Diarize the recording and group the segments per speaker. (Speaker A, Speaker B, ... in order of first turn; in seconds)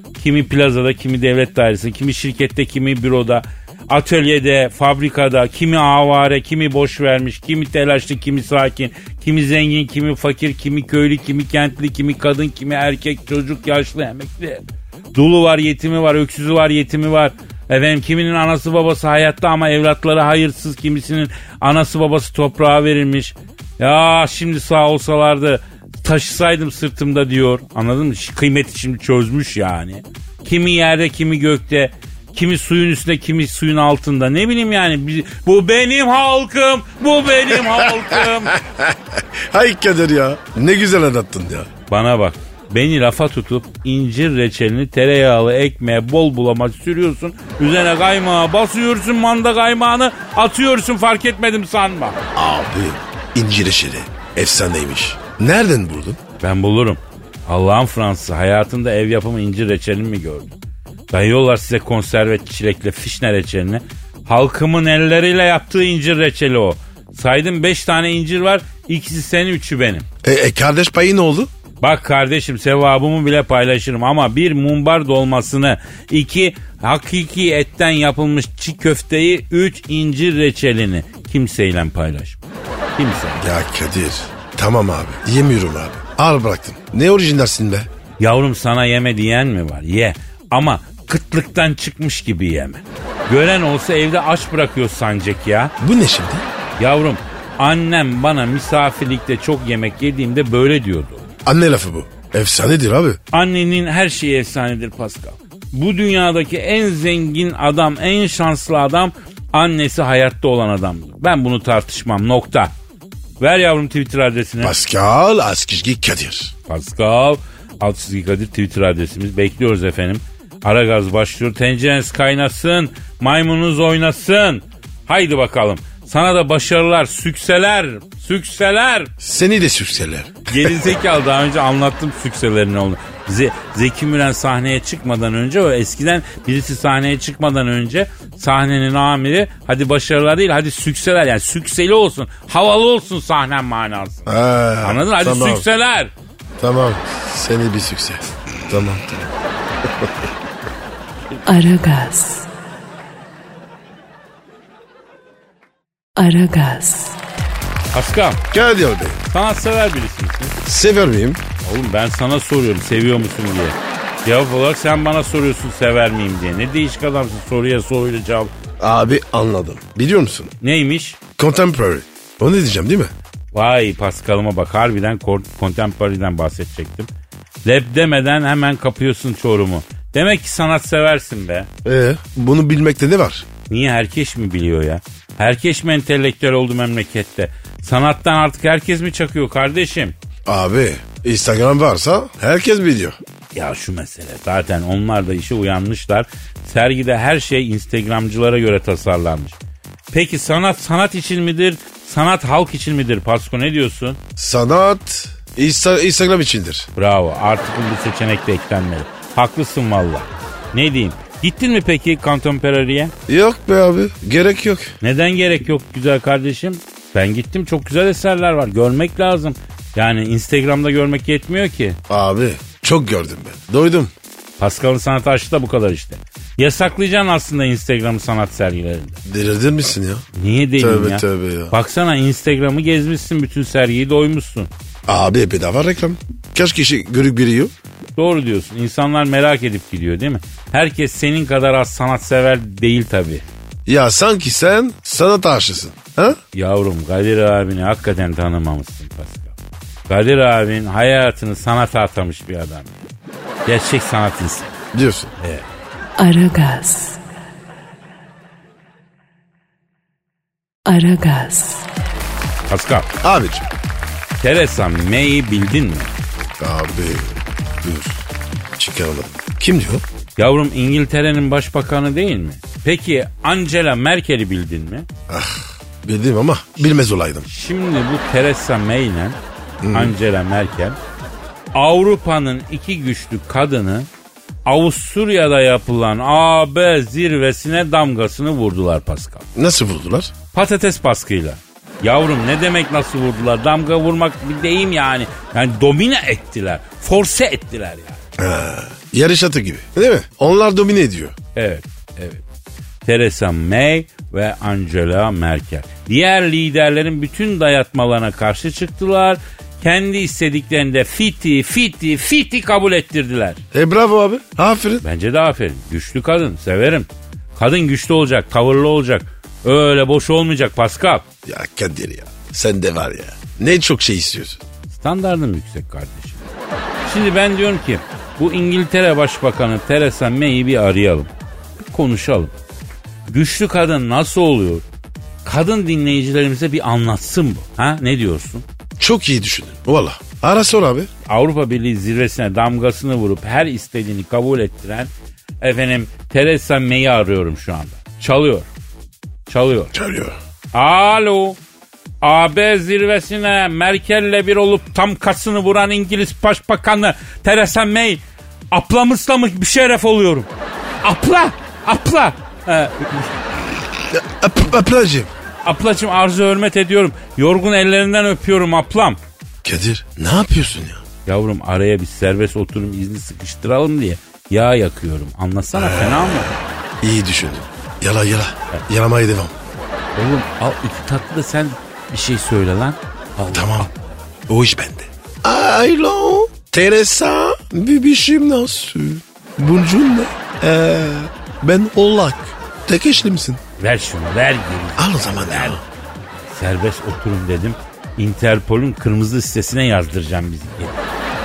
Speaker A: 0.2-38.6, 41.9-52.2, 56.4-60.5, 61.1-70.1, 71.8-82.4, 83.0-83.4, 88.2-95.7, 96.8-101.3, 103.3-112.7, 113.4-114.7, 116.7-129.1, 130.5-146.1, 157.9-158.4, 159.3-160.6, 161.6-168.5, 170.6-171.2, 173.5-177.1, 177.7-181.7, 183.7-190.2, 193.5-199.6, 200.1-204.2, 207.0-213.1, 215.0-222.0, 224.6-229.2, 230.3-234.7, 238.2-243.4, 246.5-249.6, 250.1-253.0, 253.7-254.8, 255.4-255.7, 262.7-263.1, 264.4-266.1, 270.4-275.1, 277.5-279.4, 279.9-281.0, 281.7-284.1, 284.7-289.4, 290.5-298.2, 301.6-302.4, 303.1-313.6, 315.0-321.2, 324.9-326.4, 327.1-332.6, 333.3-334.8, 335.4-338.6, 341.3-348.7, 349.5-349.9, 350.7-351.6, 352.2-360.5, 361.0-363.4, 365.6-369.2, 371.3-376.5, 380.2-383.9, 393.8-395.8, 396.5-401.0
Speaker B: 37.7-41.7, 52.4-56.2, 70.2-71.5, 83.4-87.9, 95.8-96.4, 101.4-103.2, 114.6-116.5, 129.2-130.9, 144.2-145.7, 146.6-149.3, 149.8-150.1, 158.5-159.2, 160.6-161.4, 168.8-170.5, 171.4-173.1, 181.8-183.4, 190.4-193.2, 204.4-206.9, 213.3-214.9, 222.1-224.1, 229.2-230.2, 230.8-231.7, 235.1-237.7, 243.9-246.4, 254.9-255.3, 263.2-263.6, 266.6-268.2, 268.8-270.0, 275.3-277.5, 279.8-280.1, 289.6-290.3, 298.4-301.3, 313.7-315.0, 321.4-324.6, 339.0-341.1, 349.9-350.4, 364.1-365.3, 369.6-371.0, 375.8-379.5, 383.5-383.9, 384.5-393.6, 395.0-395.8
Speaker C: 151.4-152.5, 156.2-157.2, 256.2-257.2, 260.9-261.9